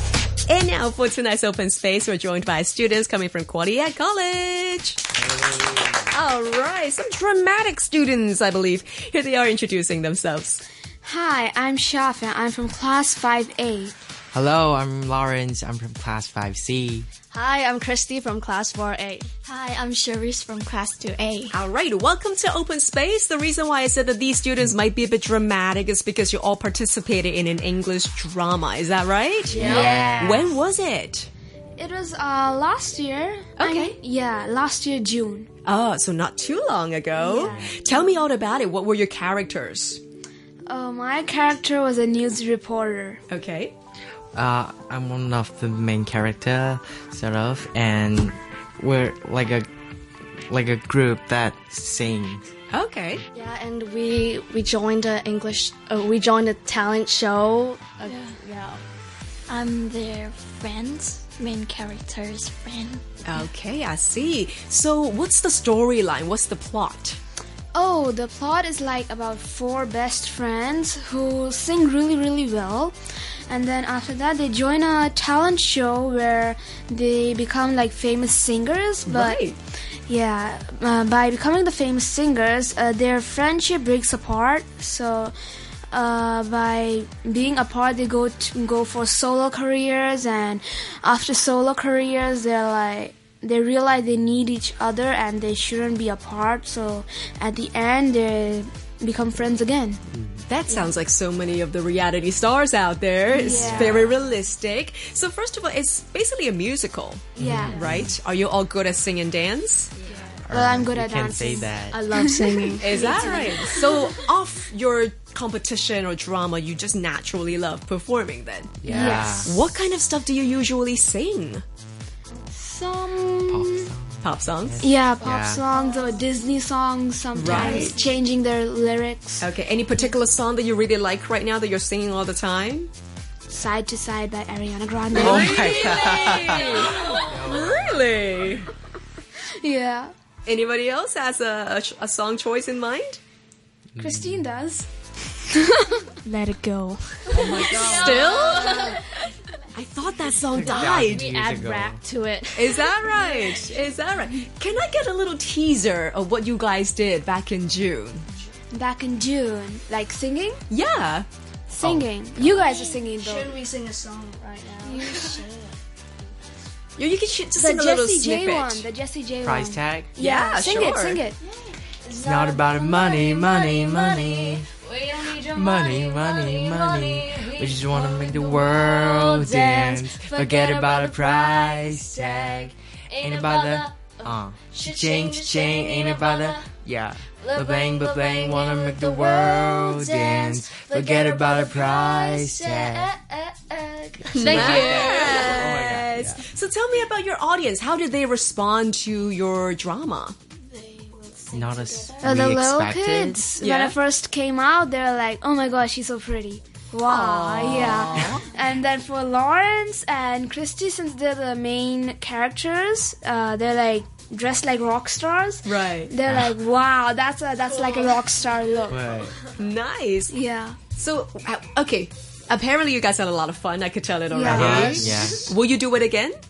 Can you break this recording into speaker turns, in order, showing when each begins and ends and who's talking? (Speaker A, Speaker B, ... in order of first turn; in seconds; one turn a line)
Speaker A: 0.5-5.0
Speaker B: 5.2-6.1
Speaker A: 6.1-10.6
Speaker C: 11.0-13.9
Speaker B: 14.3-17.1
Speaker D: 17.3-19.3
Speaker E: 19.4-21.6
Speaker A: 21.5-31.3
Speaker B: 29.5-30.5
Speaker E: 29.5-30.4
Speaker D: 29.6-29.9
Speaker C: 31.8-35.5
Speaker A: 33.6-34.0
Speaker A: 35.6-40.0
Speaker C: 37.2-37.6
Speaker D: 37.3-37.7
Speaker C: 40.6-43.2
Speaker A: 43.3-43.7
Speaker B: 44.3-49.7
Speaker B: 50.5-52.5
Speaker A: 52.7-53.2
Speaker D: 53.3-58.8
Speaker E: 58.0-58.4
Speaker E: 59.5-63.5
Speaker A: 63.2-67.2
Speaker C: 67.7-73.0
Speaker C: 73.5-79.4
Speaker A: 79.0-79.6
Speaker C: 80.0-85.3
Speaker C: 85.9-100.0
Speaker B: 100.1-100.5
Speaker A: 100.5-109.9
Speaker C: 103.3-104.1
Speaker B: 103.5-104.1
Speaker C: 107.3-107.8
Speaker B: 107.4-108.1
Speaker E: 110.0-110.4
Speaker C: 110.5-114.0
Speaker B: 110.5-112.0
Speaker D: 111.9-113.5
Speaker A: 112.8-121.6
Speaker B: 118.8-119.6
Speaker C: 118.9-119.5
Speaker C: 122.5-123.9
Speaker B: 123.3-125.6
Speaker A: 124.2-124.8
Speaker C: 124.8-129.5
Speaker E: 125.7-126.2
Speaker A: 127.3-128.0
Speaker B: 127.4-127.9
Speaker E: 127.7-128.1
Speaker A: 129.4-132.9
Speaker C: 133.5-135.8
Speaker A: 135.1-138.7
Speaker B: 135.2-138.6
Speaker E: 135.6-137.3
Speaker C: 139.6-140.1
Speaker A: 140.4-143.2
Speaker B: 143.9-144.4
Speaker C: 144.0-144.9
Speaker C: 145.5-146.1
Speaker E: 146.2-149.0
Speaker B: 147.3-148.6
Speaker A: 147.7-149.0
Speaker A: 149.7-151.3
Speaker B: 150.5-152.0
Speaker D: 150.6-152.9
Speaker A: 152.5-158.3
Speaker C: 158.7-160.6
Speaker A: 160.7-161.3
Speaker C: 161.7-163.6
Speaker B: 161.8-162.1
Speaker D: 162.4-165.2
Speaker E: 164.8-165.8
Speaker C: 165.0-165.4
Speaker A: 167.0-168.8
Speaker C: 167.6-171.4
Speaker B: 169.4-170.1
Speaker A: 170.2-171.2
Speaker E: 171.4-171.8
Speaker D: 172.0-174.5
Speaker B: 172.2-174.7
Speaker E: 172.9-186.6
Speaker B: 175.4-193.1
Speaker E: 187.4-195.8
Speaker D: 194.3-195.6
Speaker A: 194.3-200.3
Speaker B: 194.4-196.4
Speaker E: 200.7-202.2
Speaker B: 201.5-203.4
Speaker C: 202.2-219.2
Speaker A: 203.6-203.9
Speaker A: 207.0-208.4
Speaker A: 215.6-216.1
Speaker B: 216.2-216.5
Speaker D: 217.6-218.2
Speaker B: 218.9-219.4
Speaker A: 219.6-220.4
Speaker C: 220.3-220.8
Speaker A: 220.9-226.4
Speaker C: 224.3-225.2
Speaker B: 224.4-225.5